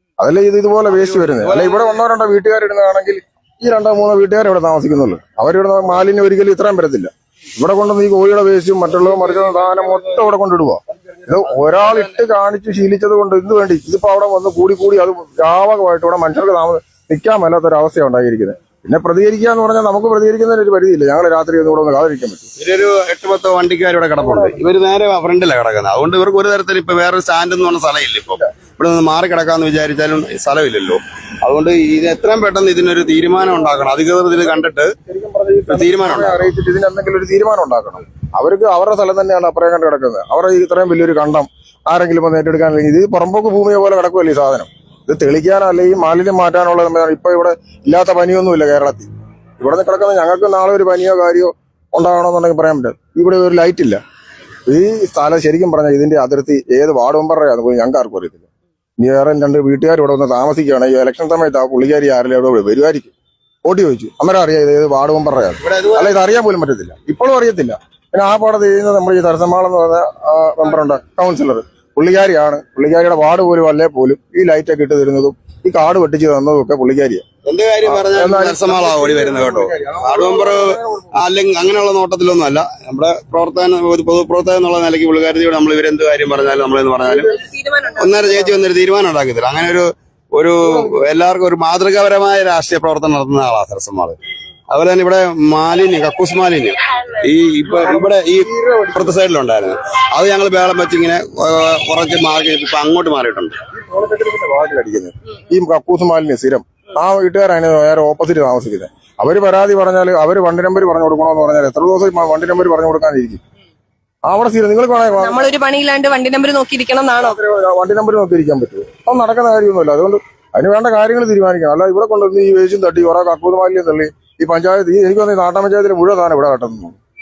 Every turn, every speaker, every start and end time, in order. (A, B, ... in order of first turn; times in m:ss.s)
0:00.2-0:22.4 A
0:00.9-0:02.0 B
0:22.6-0:34.9 B
0:35.0-0:54.0 A
0:35.7-0:36.5 B
0:54.7-0:58.5 A
0:59.0-1:03.1 A
1:03.6-1:17.2 A
1:05.6-1:06.3 B
1:17.4-1:20.6 B
1:17.8-1:21.2 A
1:21.2-1:27.3 B
1:27.2-1:28.0 C
1:28.0-1:34.2 B
1:34.7-1:43.6 B
1:37.7-1:39.2 A
1:43.7-1:53.4 A
1:54.2-1:55.5 A
1:55.2-1:57.4 C
1:57.2-2:07.0 A